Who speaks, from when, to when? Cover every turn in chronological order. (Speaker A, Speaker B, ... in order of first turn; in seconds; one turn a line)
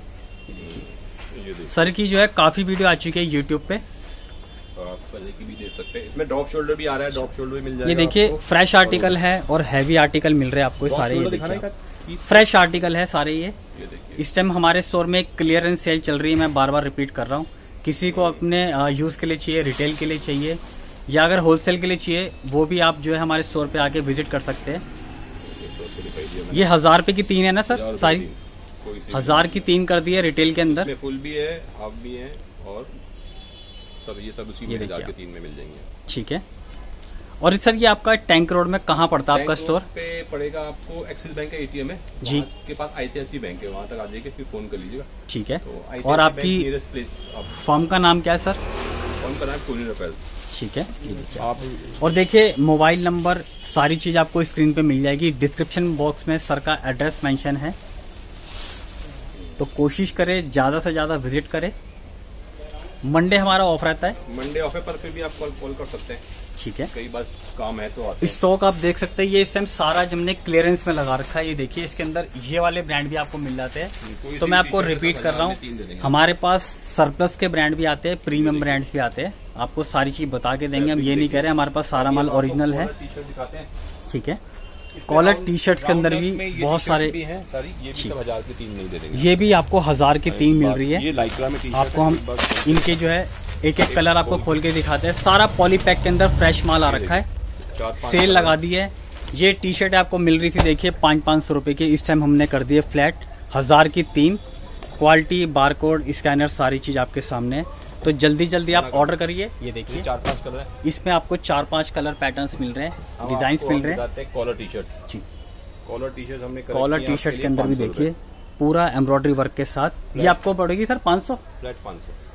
Speaker A: 0.5-0.8
Speaker B: 0.6-1.8
Speaker A: 1.6-3.8
Speaker B: 4.7-9.2
Speaker A: 7.8-11.7
Speaker B: 10.8-12.6
Speaker A: 12.2-13.6
Speaker B: 13.7-14.3
Speaker A: 14.2-24.8
Speaker B: 18.1-18.4
Speaker B: 25.4-26.8
Speaker A: 26.5-28.3
Speaker B: 27.7-29.7
Speaker A: 29.1-30.9
Speaker B: 30.4-33.0
Speaker B: 34.0-35.9
Speaker A: 34.7-35.1
Speaker A: 36.1-36.4
Speaker A: 37.4-39.9
Speaker B: 39.3-45.1
Speaker A: 42.2-42.5
Speaker A: 45.3-46.7
Speaker B: 45.6-47.5
Speaker A: 47.5-48.6
Speaker B: 49.2-50.2
Speaker A: 50.5-57.8
Speaker B: 51.4-52.1
Speaker B: 59.3-59.6
Speaker A: 59.6-61.7
Speaker A: 63.0-64.2
Speaker B: 64.2-66.2
Speaker A: 66.6-66.9
Speaker B: 66.8-68.4
Speaker A: 68.2-82.9
Speaker B: 74.0-76.3
Speaker B: 78.3-78.8
Speaker B: 80.7-83.7
Speaker A: 84.1-84.4
Speaker B: 84.9-89.4
Speaker A: 85.1-87.2
Speaker A: 89.1-91.0
Speaker B: 90.2-93.0
Speaker A: 91.7-97.3
Speaker B: 93.8-94.6
Speaker B: 96.8-98.6
Speaker A: 98.0-104.4
Speaker A: 105.0-110.1
Speaker B: 108.7-109.2
Speaker B: 109.9-110.7
Speaker A: 110.8-114.0
Speaker B: 113.2-114.9
Speaker B: 115.8-118.1
Speaker A: 116.7-121.4
Speaker B: 120.1-120.4
Speaker B: 121.6-122.2